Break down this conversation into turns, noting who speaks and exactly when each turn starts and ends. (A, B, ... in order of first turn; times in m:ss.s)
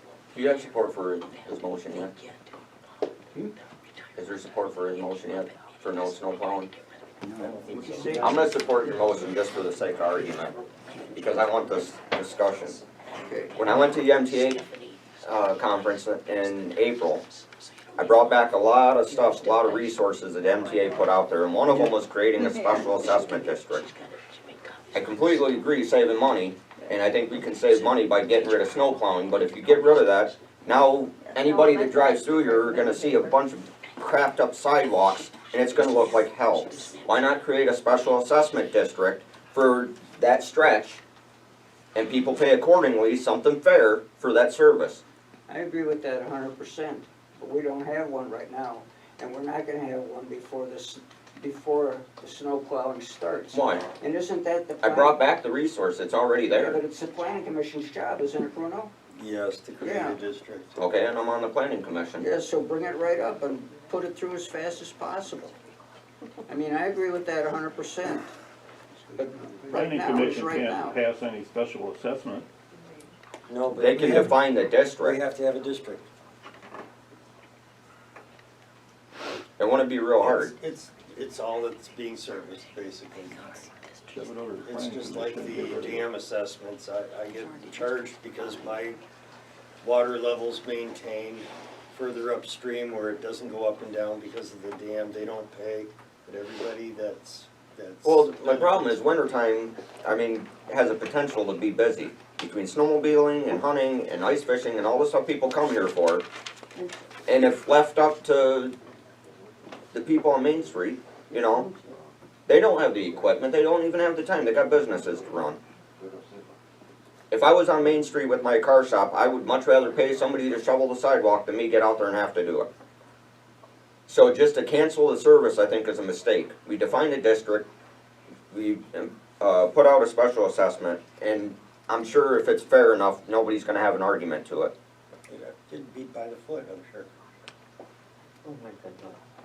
0:00.3-0:02.1 A
0:04.2-0:06.7 A
0:07.4-0:08.4 B
0:07.6-0:08.5 C
0:08.2-0:10.6 A
0:11.1-0:12.8 A
0:13.2-0:13.6 C
0:13.6-0:14.7 A
0:15.2-0:17.2 A
0:18.0-0:23.9 A
0:24.9-0:41.0 A
0:41.9-0:45.0 A
0:45.5-0:55.2 C
0:53.5-0:53.8 A
0:54.8-0:56.8 A
0:56.5-0:58.9 C
0:59.1-1:00.8 B
0:59.8-1:00.2 C
1:00.8-1:02.2 A
1:02.2-1:05.5 C
1:06.5-1:08.3 C
1:09.2-1:11.0 C
1:09.7-1:12.4 D
1:13.5-1:14.4 B
1:13.8-1:15.2 A
1:15.0-1:16.1 B
1:19.6-1:20.5 A
1:20.2-1:23.7 B
1:24.1-1:26.1 D
1:24.6-1:29.0 B
1:29.8-1:39.0 B
1:38.0-1:46.2 A
1:47.3-1:48.7 A
1:49.9-1:51.7 A
1:52.5-1:55.6 A
1:57.3-2:02.7 A
2:04.1-2:07.7 A
2:08.5-2:14.7 A
2:15.3-2:17.1 B